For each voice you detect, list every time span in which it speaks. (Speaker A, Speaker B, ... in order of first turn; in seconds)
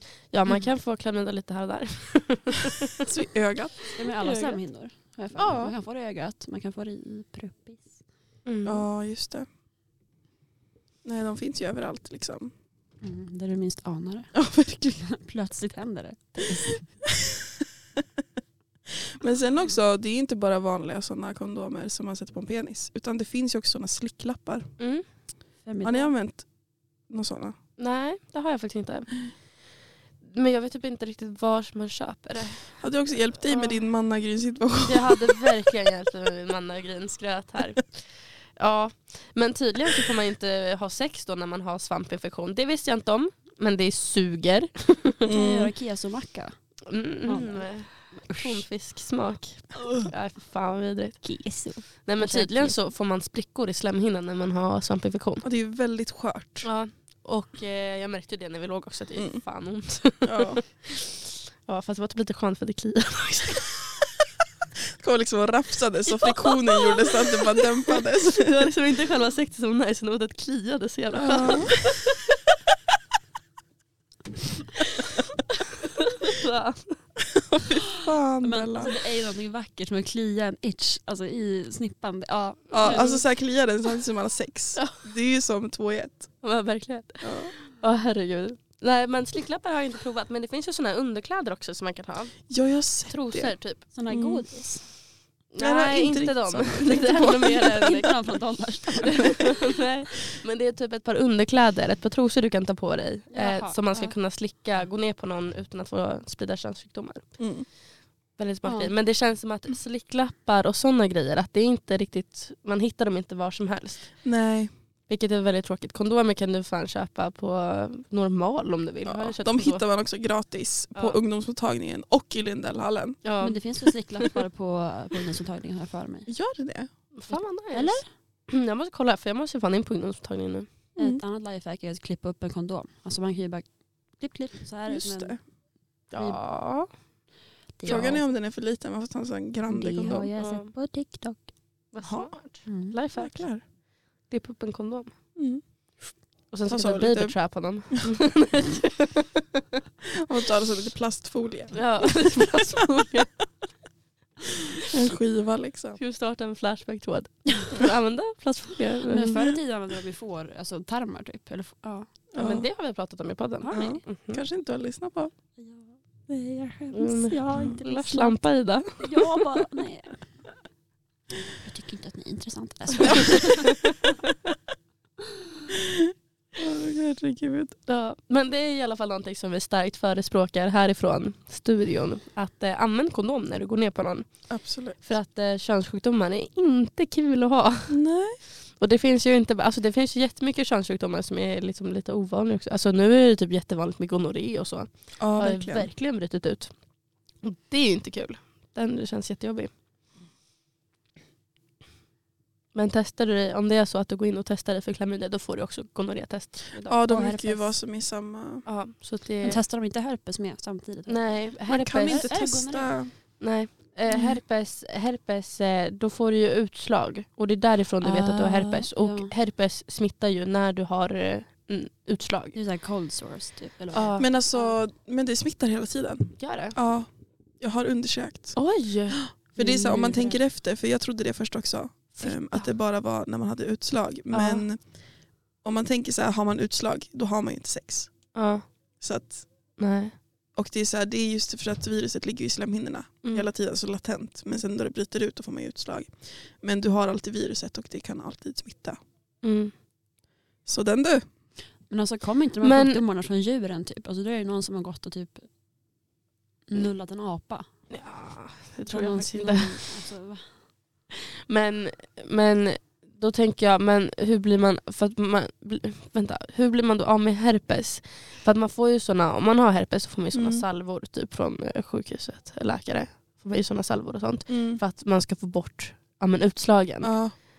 Speaker A: 0.3-3.1, 8.5-8.9, 24.8-25.1, 27.8-29.1, 30.2-32.7, 33.5-33.7, 34.8-45.3, 46.9-51.2, 52.0-55.5, 56.6-63.9, 66.2-72.2, 74.8-75.2, 75.8-77.0, 86.4-92.4, 93.1-93.8, 95.5-98.1, 99.0-107.3, 108.4-114.1, 115.1-119.8, 123.2-123.6, 127.2-130.7, 136.1-136.9, 140.3-140.7, 141.9-143.5, 144.3-145.1, 146.5-149.8, 151.7-153.4, 156.0-159.4, 162.3-164.4, 166.9-169.0, 173.1-174.3, 177.9-184.3, 185.0-188.0, 188.8-196.7, 197.4-199.7, 202.8-207.1, 208.7-209.6, 211.1-212.3, 213.4-222.6, 223.9-224.3, 226.4-226.8, 228.6-229.2, 234.3-234.7, 238.3-238.6, 239.8-240.1, 249.4-249.7, 252.6-253.0, 257.9-259.8, 261.5-277.1
Speaker B: 3.0-4.6, 5.4-5.7, 8.7-9.5, 11.1-12.5, 14.3-15.0, 17.2-18.0, 19.0-24.7, 25.8-26.4, 27.1-27.6, 32.8-35.5, 45.3-45.7, 55.4-56.7, 60.2-60.6, 65.0-68.7, 71.1-71.8, 77.3-79.0, 82.7-86.3, 87.2-87.5, 92.5-93.5, 94.1-94.5, 95.6-98.1, 107.4-107.7, 114.2-114.7, 119.0-123.2, 126.3-126.9, 131.0-131.2, 134.9-135.4, 137.9-140.3, 142.0-142.4, 143.2-143.6, 145.4-145.6, 146.7-147.4, 150.0-152.1, 154.9-156.0, 162.3-162.7, 163.7-165.3, 175.7-177.8, 184.5-185.0, 187.9-188.4, 195.2-195.9, 206.9-208.7, 211.7-213.1, 224.2-227.1, 227.6-228.6, 229.1-234.8, 235.6-238.1, 239.0-239.5, 240.6-249.0, 250.7-251.2, 270.3-270.6, 274.5-274.8, 277.0-277.3
Speaker C: 4.0-8.0, 13.0-14.3, 15.0-16.9, 25.6-26.1, 45.3-46.5, 47.3-48.6, 51.2-52.8, 78.4-83.2, 93.9-94.8, 97.5-99.6, 103.3-104.1, 108.7-108.9, 123.4-126.3, 127.7-128.1, 131.0-133.7, 134.2-135.4, 137.8-138.2, 139.7-141.4, 142.7-143.0, 159.1-162.1, 163.6-164.0, 165.6-168.4, 169.0-170.2, 171.6-173.8, 207.1-207.7, 209.4-211.4, 212.0-212.9, 218.0-219.3, 222.5-224.8, 229.6-230.4, 251.9-255.5, 256.7-257.7, 258.9-260.5